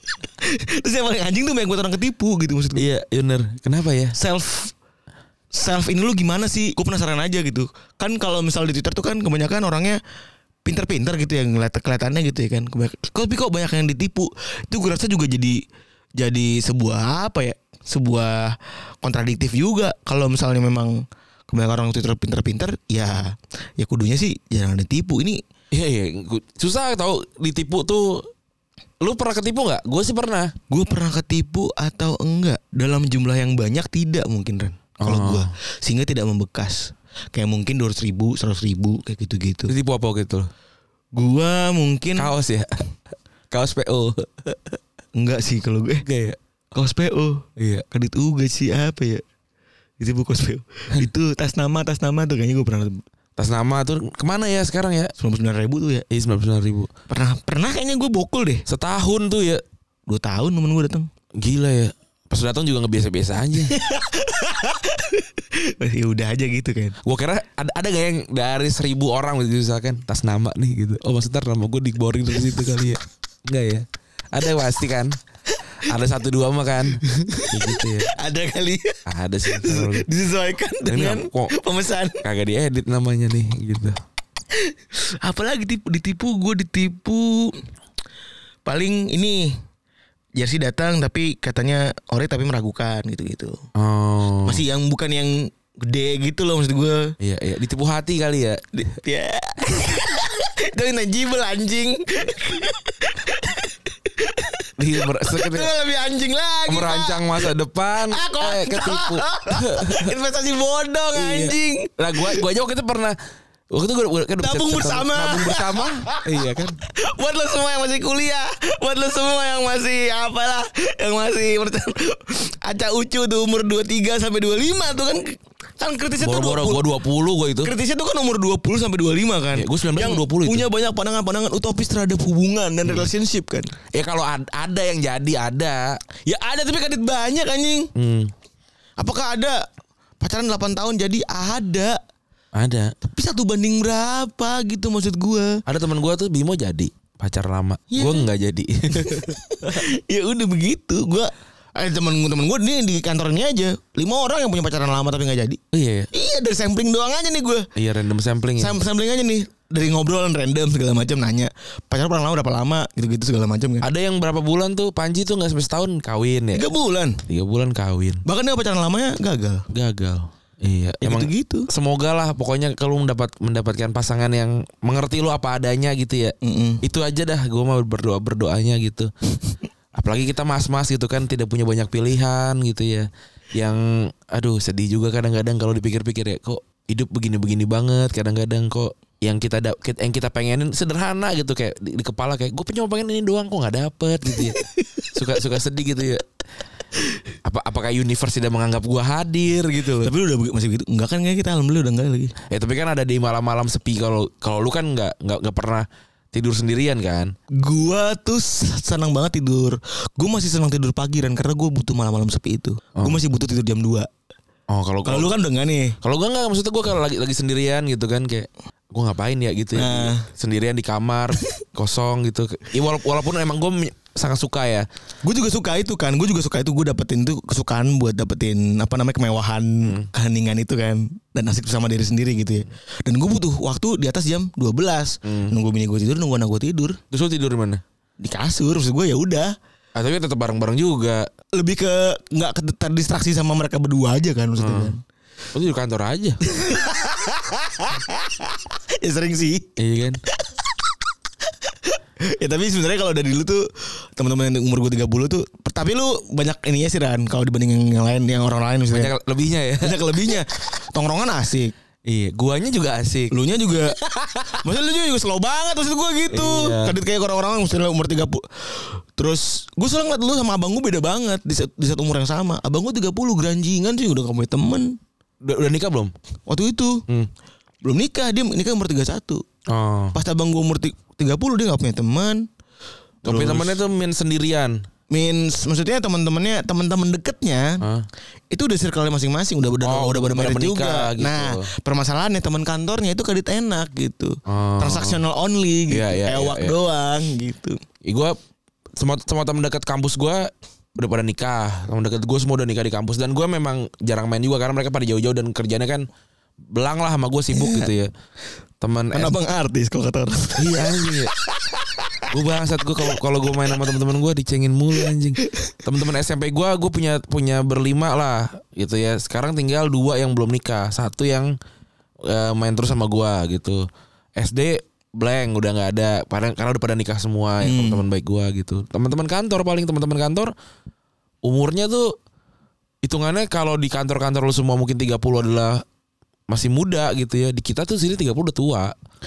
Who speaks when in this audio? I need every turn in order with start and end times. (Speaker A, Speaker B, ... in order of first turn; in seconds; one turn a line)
Speaker A: 0.4-2.9
Speaker B: 2.8-4.2
Speaker A: 4.2-4.8
Speaker A: 5.5-10.0
Speaker A: 10.7-15.6
Speaker A: 16.2-25.4
Speaker B: 25.7-28.3
Speaker B: 29.0-30.5
Speaker A: 30.7-39.7
Speaker B: 35.0-35.5
Speaker B: 39.7-40.5
Speaker A: 41.1-42.3
Speaker B: 42.2-42.8
Speaker B: 43.5-44.8
Speaker A: 45.2-46.0
Speaker B: 46.0-46.4
Speaker A: 46.8-49.2
Speaker B: 47.6-47.9
Speaker A: 50.0-53.0
Speaker B: 53.4-55.1
Speaker A: 55.2-56.1
Speaker B: 56.1-56.9
Speaker A: 57.1-58.6
Speaker B: 58.7-59.6
Speaker A: 60.1-61.1
Speaker B: 61.4-63.8
Speaker A: 63.7-67.0
Speaker B: 67.0-75.2
Speaker B: 75.8-78.1
Speaker A: 77.0-82.2
Speaker B: 79.1-80.1
Speaker B: 80.9-81.5
Speaker B: 82.2-84.0
Speaker A: 84.5-87.7
Speaker A: 88.7-89.6
Speaker A: 90.4-93.6
Speaker B: 93.8-94.6
Speaker A: 94.5-97.1
Speaker B: 97.2-98.7
Speaker A: 98.8-107.5
Speaker B: 104.8-105.7
Speaker B: 106.7-110.1
Speaker A: 108.1-112.4
Speaker B: 111.1-113.2
Speaker B: 113.7-116.8
Speaker A: 114.4-116.2
Speaker A: 116.9-126.8
Speaker B: 126.2-127.7
Speaker A: 127.6-133.7
Speaker B: 129.5-130.7
Speaker B: 133.9-135.9
Speaker A: 136.3-137.9
Speaker B: 137.9-138.3
Speaker A: 139.0-139.7
Speaker A: 140.2-142.0
Speaker B: 142.6-142.9
Speaker A: 143.0-145.6
Speaker B: 145.7-149.8
Speaker A: 147.9-148.3
Speaker A: 148.9-155.6
Speaker B: 155.7-156.1
Speaker A: 156.1-157.7
Speaker B: 157.8-158.8
Speaker A: 158.6-163.9
Speaker B: 163.8-166.7
Speaker A: 166.5-167.2
Speaker B: 167.3-168.2
Speaker A: 168.2-169.7
Speaker B: 169.7-179.1
Speaker A: 171.0-171.7
Speaker A: 176.4-176.8
Speaker B: 180.0-196.2
Speaker A: 194.4-195.1
Speaker B: 197.4-200.1
Speaker A: 199.8-202.3
Speaker B: 202.5-207.3
Speaker A: 207.6-214.1
Speaker B: 214.7-215.3
Speaker A: 215.1-216.0
Speaker B: 216.0-224.9
Speaker A: 219.8-220.3
Speaker A: 225.2-237.0
Speaker B: 235.2-235.5
Speaker B: 237.1-237.8
Speaker A: 238.2-239.5
Speaker B: 239.9-241.3
Speaker A: 241.6-245.0
Speaker B: 244.6-244.9
Speaker B: 245.5-246.4
Speaker A: 246.5-249.8
Speaker B: 249.8-250.2
Speaker A: 251.9-253.6
Speaker A: 254.2-259.1
Speaker B: 258.9-260.1
Speaker A: 259.8-261.7
Speaker B: 262.1-263.3
Speaker A: 263.3-275.0
Speaker B: 264.0-264.6
Speaker B: 266.3-267.0
Speaker B: 275.4-276.1
Speaker A: 276.5-277.0
Speaker A: 277.9-279.4
Speaker B: 279.7-280.2
Speaker A: 280.1-282.5
Speaker A: 283.2-283.8
Speaker B: 283.2-284.8
Speaker A: 285.1-287.8
Speaker B: 287.8-288.1
Speaker A: 288.5-297.8
Speaker B: 289.8-291.7
Speaker B: 294.5-295.2
Speaker B: 295.9-296.8
Speaker B: 298.1-298.4
Speaker B: 299.0-306.1
Speaker B: 306.7-308.1
Speaker A: 307.5-307.9
Speaker B: 308.8-309.3
Speaker A: 309.1-312.2
Speaker B: 310.6-311.3
Speaker B: 312.3-321.6
Speaker B: 322.2-323.9
Speaker B: 324.4-330.5
Speaker A: 327.6-328.1
Speaker B: 331.4-332.1
Speaker B: 333.0-335.8
Speaker B: 336.5-338.9